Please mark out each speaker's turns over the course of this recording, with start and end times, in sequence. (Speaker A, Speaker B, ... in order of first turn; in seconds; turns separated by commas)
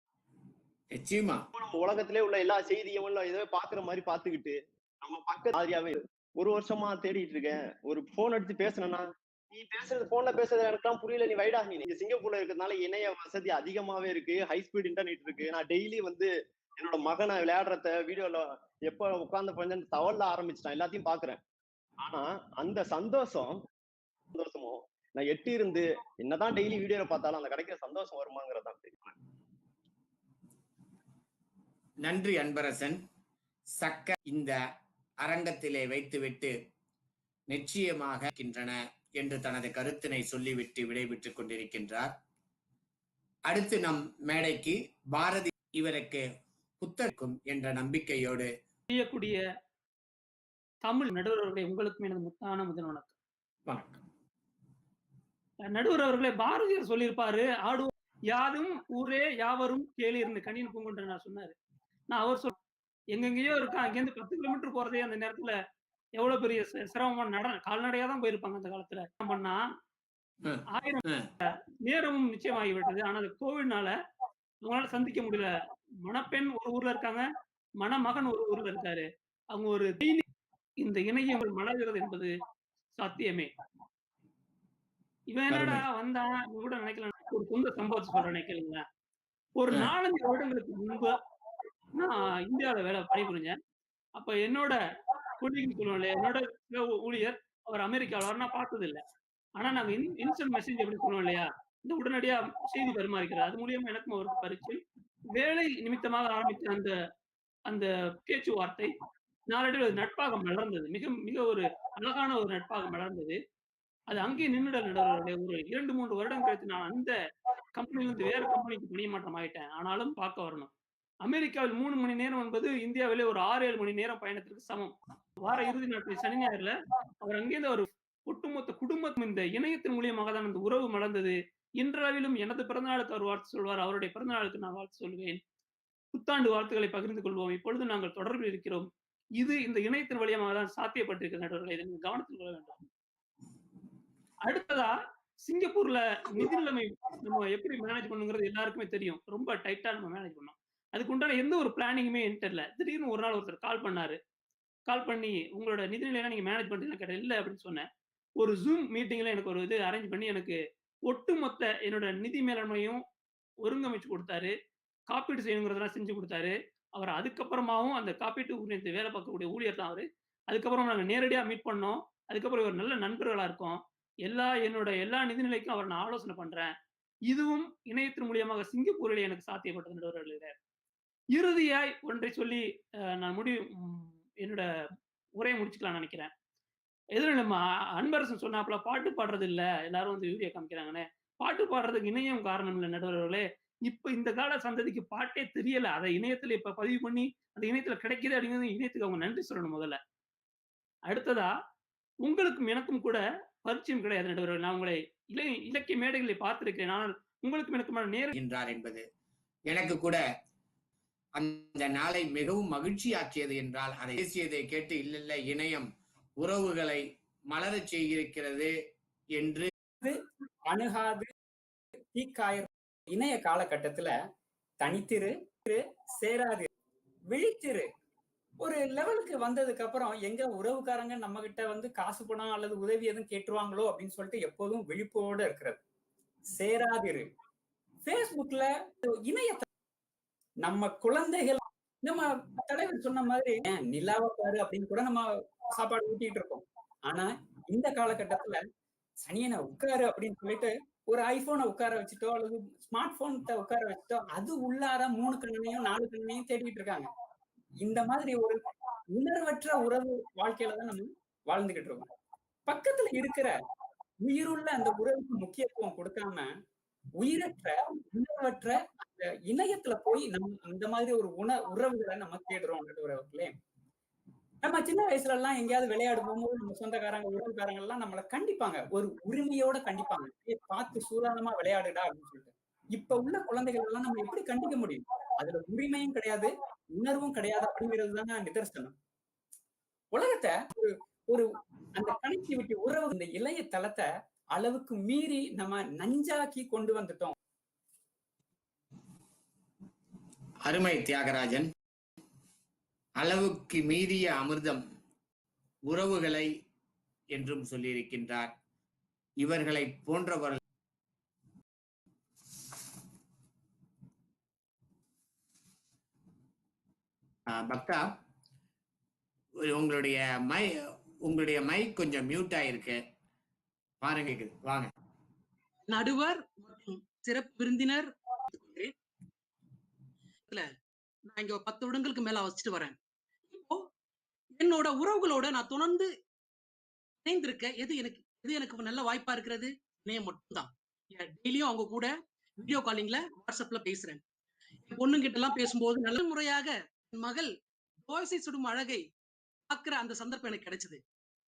Speaker A: 0.9-1.4, Speaker B: 1.6-21.4, Speaker B: 22.0-23.6, Speaker B: 24.3-29.1, Speaker A: 32.0-33.0, Speaker A: 33.8-34.6, Speaker A: 35.2-36.5, Speaker A: 37.5-42.1, Speaker A: 43.5-46.3, Speaker A: 46.8-48.5, Speaker C: 48.9-49.4, Speaker C: 50.8-53.1, Speaker A: 53.7-54.0, Speaker C: 55.7-61.5, Speaker C: 62.1-62.5, Speaker C: 63.1-65.5, Speaker C: 66.2-69.6, Speaker A: 70.4-71.3, Speaker C: 70.7-73.9, Speaker C: 74.7-75.5, Speaker C: 76.1-77.2, Speaker C: 77.8-80.2, Speaker C: 80.8-82.3, Speaker C: 83.0-83.5, Speaker C: 85.3-88.8, Speaker A: 85.5-85.8, Speaker C: 89.6-91.1, Speaker C: 92.0-93.6, Speaker C: 94.2-94.8, Speaker C: 95.4-99.0, Speaker C: 99.6-104.8, Speaker C: 105.4-106.9, Speaker C: 107.7-108.9, Speaker C: 109.5-113.4, Speaker C: 114.1-117.2, Speaker C: 117.8-120.7, Speaker C: 121.2-135.4, Speaker C: 136.1-138.9, Speaker C: 139.4-142.8, Speaker C: 144.5-144.9, Speaker C: 145.5-154.2, Speaker C: 154.9-157.9, Speaker C: 158.4-163.0, Speaker C: 163.6-164.5, Speaker C: 165.1-176.7, Speaker C: 177.3-180.6, Speaker C: 181.4-182.7, Speaker C: 183.2-184.7, Speaker C: 185.4-186.3, Speaker C: 187.2-200.0, Speaker C: 201.1-201.5, Speaker C: 202.2-208.3, Speaker A: 208.3-209.0, Speaker A: 209.7-210.2, Speaker A: 211.4-215.9, Speaker A: 216.4-218.7, Speaker A: 219.4-219.7, Speaker D: 220.7-221.3, Speaker D: 222.1-224.2, Speaker D: 224.8-226.7, Speaker D: 227.3-227.9, Speaker D: 228.6-235.8, Speaker D: 236.6-237.3, Speaker D: 238.0-239.7, Speaker D: 240.6-248.6, Speaker D: 249.2-257.1, Speaker D: 257.8-262.1, Speaker D: 262.7-263.6, Speaker D: 264.2-266.5, Speaker D: 267.2-273.6, Speaker D: 274.6-288.9, Speaker D: 290.1-297.3, Speaker A: 300.6-301.7, Speaker A: 303.2-304.8, Speaker A: 305.9-306.5, Speaker A: 307.3-308.5, Speaker A: 309.4-310.6, Speaker A: 317.5-318.1, Speaker A: 319.7-320.7, Speaker A: 321.3-323.0, Speaker A: 324.0-324.9, Speaker E: 325.9-328.9, Speaker E: 331.3-332.9, Speaker E: 333.5-333.8, Speaker E: 334.6-336.1, Speaker E: 337.3-344.2, Speaker E: 344.9-347.5, Speaker E: 348.1-349.0, Speaker E: 349.7-351.0